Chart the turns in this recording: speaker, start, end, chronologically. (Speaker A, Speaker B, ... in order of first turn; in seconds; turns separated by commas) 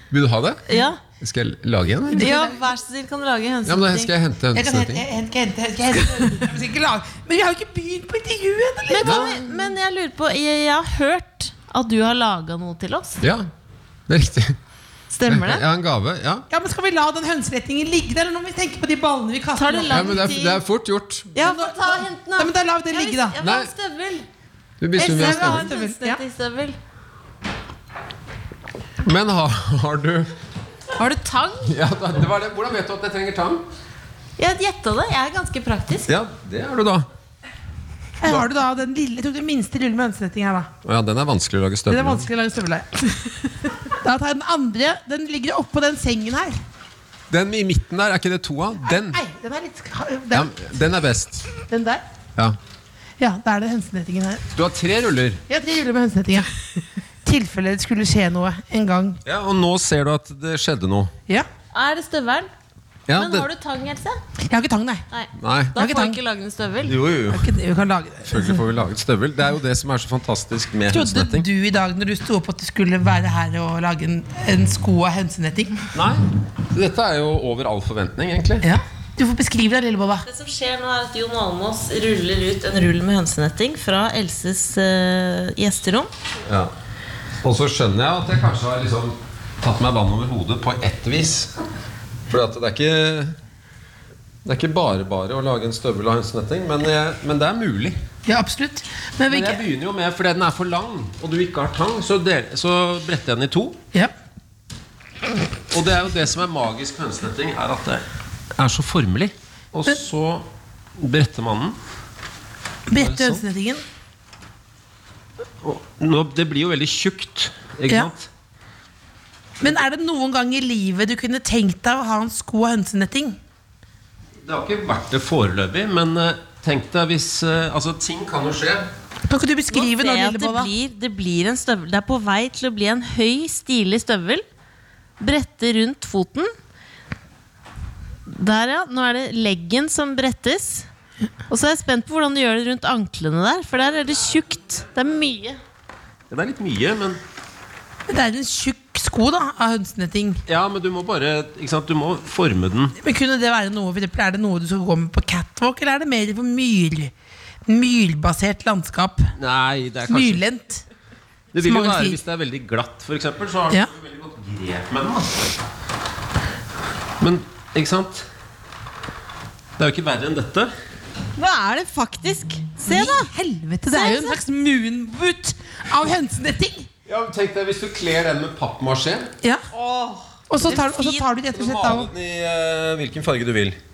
Speaker A: 0.1-0.6, Speaker B: 0.7-1.0, Speaker A: 1.2-2.3, Speaker C: 2.1-2.6, Speaker B: 2.1-4.1, Speaker A: 3.7-5.0, Speaker C: 4.5-9.5, Speaker B: 8.9-13.2, Speaker A: 9.1-9.3, Speaker A: 13.2-13.5, Speaker A: 14.1-14.6, Speaker B: 15.1-15.6, Speaker A: 15.3-16.5, Speaker C: 16.5-20.2, Speaker B: 19.6-20.6, Speaker A: 19.9-21.3, Speaker B: 21.3-24.3, Speaker C: 21.4-23.4, Speaker A: 23.4-23.7, Speaker A: 24.8-25.7, Speaker C: 25.0-26.2, Speaker B: 25.0-26.8, Speaker A: 29.0-30.3, Speaker B: 31.0-31.7, Speaker A: 31.6-33.6, Speaker B: 34.4-36.1, Speaker A: 36.1-37.1, Speaker C: 38.2-40.7, Speaker A: 40.8-42.3, Speaker C: 41.9-46.6, Speaker A: 47.3-49.2, Speaker C: 48.9-50.5, Speaker A: 50.3-51.5, Speaker C: 51.6-52.0, Speaker C: 53.2-54.4, Speaker A: 54.5-55.4, Speaker C: 55.5-56.5, Speaker C: 57.2-59.2, Speaker A: 59.2-61.1, Speaker B: 61.7-62.5, Speaker A: 63.1-63.5, Speaker B: 63.1-64.2, Speaker C: 64.5-65.0, Speaker B: 65.1-67.0, Speaker A: 65.4-65.8, Speaker C: 65.8-66.2, Speaker A: 66.9-67.5, Speaker C: 67.3-68.6, Speaker A: 68.2-71.5, Speaker C: 70.9-75.9, Speaker A: 75.9-78.7, Speaker C: 78.6-80.3, Speaker B: 80.2-86.1, Speaker A: 86.5-86.7, Speaker A: 87.4-91.5, Speaker A: 92.3-93.3, Speaker A: 94.5-98.0, Speaker C: 98.2-99.6, Speaker A: 99.3-103.8, Speaker A: 105.7-108.0, Speaker A: 108.6-110.5, Speaker A: 111.0-111.8, Speaker C: 112.9-113.8, Speaker A: 113.0-113.4, Speaker A: 115.6-118.3, Speaker C: 119.6-123.4, Speaker A: 124.5-128.9, Speaker C: 129.2-130.7, Speaker B: 129.7-134.4, Speaker B: 135.2-136.5, Speaker B: 138.3-140.9, Speaker B: 141.5-145.6, Speaker A: 146.3-147.2, Speaker C: 148.1-150.4, Speaker A: 150.5-152.9, Speaker C: 153.0-157.1, Speaker C: 157.7-159.3, Speaker A: 159.4-160.4, Speaker C: 160.1-160.8, Speaker A: 161.5-165.5, Speaker C: 161.6-162.2, Speaker A: 167.2-168.3, Speaker A: 169.8-170.7, Speaker B: 171.3-173.3, Speaker C: 172.8-176.9, Speaker B: 173.9-174.4, Speaker A: 177.1-179.3, Speaker B: 179.7-181.3, Speaker C: 180.5-182.1, Speaker A: 181.5-183.8